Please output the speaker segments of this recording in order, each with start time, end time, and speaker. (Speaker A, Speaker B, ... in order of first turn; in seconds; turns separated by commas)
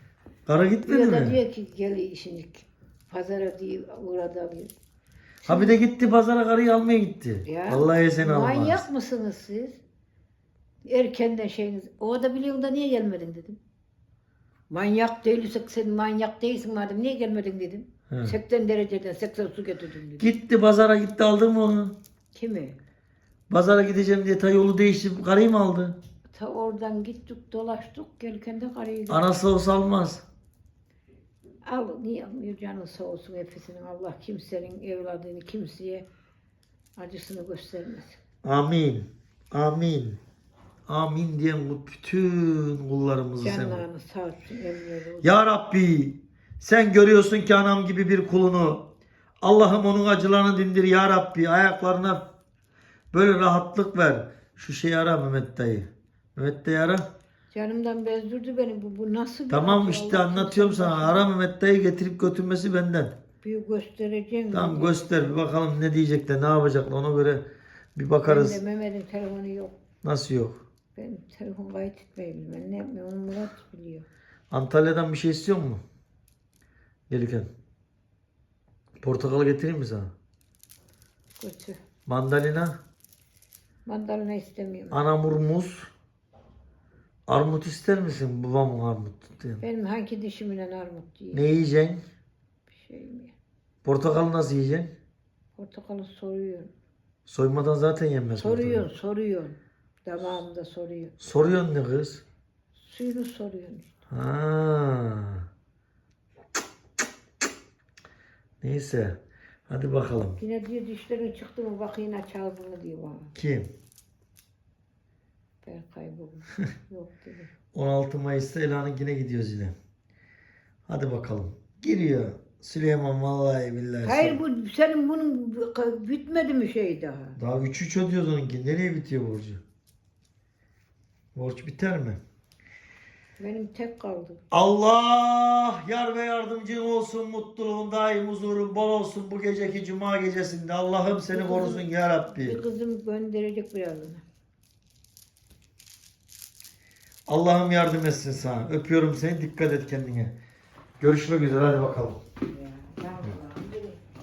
Speaker A: 0.5-1.4, Speaker B: 0.9-4.7, Speaker A: 5.4-8.8, Speaker B: 5.5-5.8, Speaker B: 7.4-9.8, Speaker B: 10.8-13.6, Speaker B: 14.7-20.3, Speaker A: 18.1-18.3, Speaker A: 20.2-22.0, Speaker B: 22.3-22.8, Speaker A: 23.5-26.0, Speaker B: 26.3-29.2, Speaker A: 29.1-30.2, Speaker B: 31.6-36.1, Speaker B: 37.0-38.2, Speaker A: 38.4-40.2, Speaker A: 40.9-43.8, Speaker B: 43.4-45.4, Speaker A: 45.2-48.9, Speaker A: 49.4-52.3, Speaker A: 53.1-57.1, Speaker B: 57.5-61.3, Speaker A: 59.5-63.2, Speaker B: 63.4-65.3, Speaker A: 64.5-68.6, Speaker B: 68.2-69.8, Speaker A: 70.0-70.6, Speaker B: 71.0-74.0, Speaker A: 74.5-75.8, Speaker A: 77.1-77.5, Speaker A: 79.0-80.1, Speaker B: 81.4-81.8, Speaker A: 82.1-82.8, Speaker B: 83.8-85.1, Speaker A: 84.9-85.9, Speaker A: 87.3-89.6, Speaker B: 89.6-91.5, Speaker A: 91.3-92.0, Speaker B: 92.7-93.3, Speaker A: 93.8-94.9, Speaker B: 95.6-96.7, Speaker A: 97.3-98.8, Speaker B: 98.4-101.2, Speaker A: 101.2-102.2, Speaker B: 102.8-103.9, Speaker A: 104.1-105.5, Speaker A: 108.6-110.4, Speaker B: 110.4-113.3, Speaker A: 113.3-113.7, Speaker B: 115.6-117.5, Speaker A: 117.7-119.7, Speaker A: 120.9-124.4, Speaker B: 124.0-127.4, Speaker A: 127.4-129.6, Speaker A: 131.3-132.2, Speaker B: 133.4-134.4, Speaker A: 134.5-142.6, Speaker B: 141.3-144.2, Speaker A: 147.3-150.3, Speaker A: 151.0-152.2, Speaker B: 152.5-154.0